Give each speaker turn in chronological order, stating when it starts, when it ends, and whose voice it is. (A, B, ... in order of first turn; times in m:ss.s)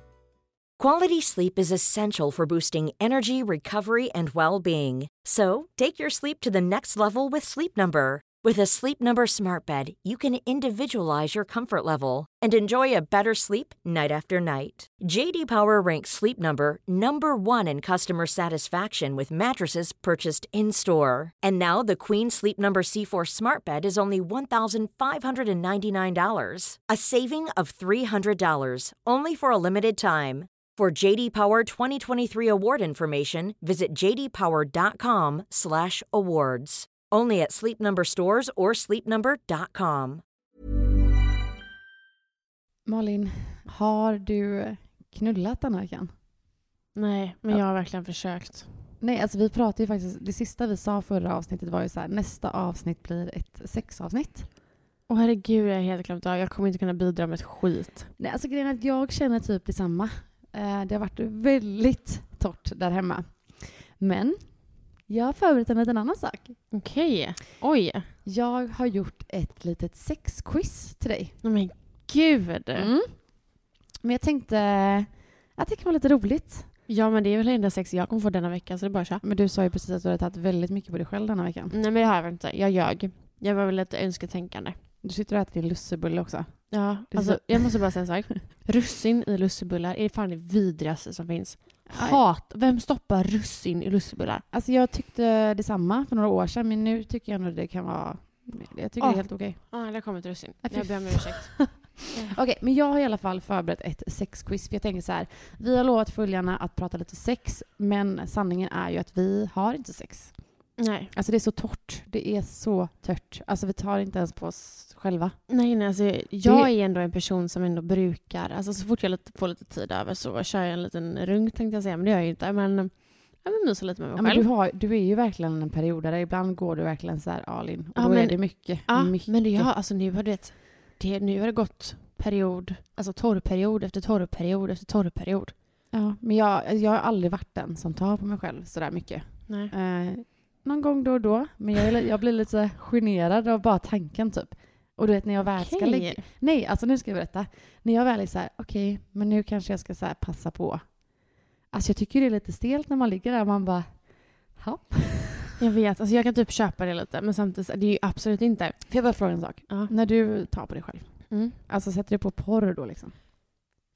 0:00.8-0:40.2 A
0:42.8-0:46.1 B
0:46.9-0:48.7 C
0:49.0-0:54.5 B
0:55.1-0:58.1 C
0:58.2-1:06.6 B
1:06.7-1:08.1 C
1:08.2-1:11.4 B
1:11.4-1:12.9 C
1:12.8-1:16.7 B
1:16.9-1:19.2 C
1:19.2-1:21.7 B
1:21.7-1:24.7 C
1:25.0-1:28.0 B
1:26.7-1:34.4 C
1:31.9-1:32.2 B
1:34.5-1:39.6 B
1:39.0-1:42.4 C
1:40.6-1:55.4 B
1:50.8-1:51.1 C
1:55.5-2:04.5 C
1:56.4-1:56.7 B
2:04.2-2:09.7 B
2:07.9-2:15.5 C
2:15.9-2:35.5 B
2:19.5-2:19.7 C
2:25.5-2:26.2 C
2:35.6-2:41.6 C
2:38.9-2:43.2 B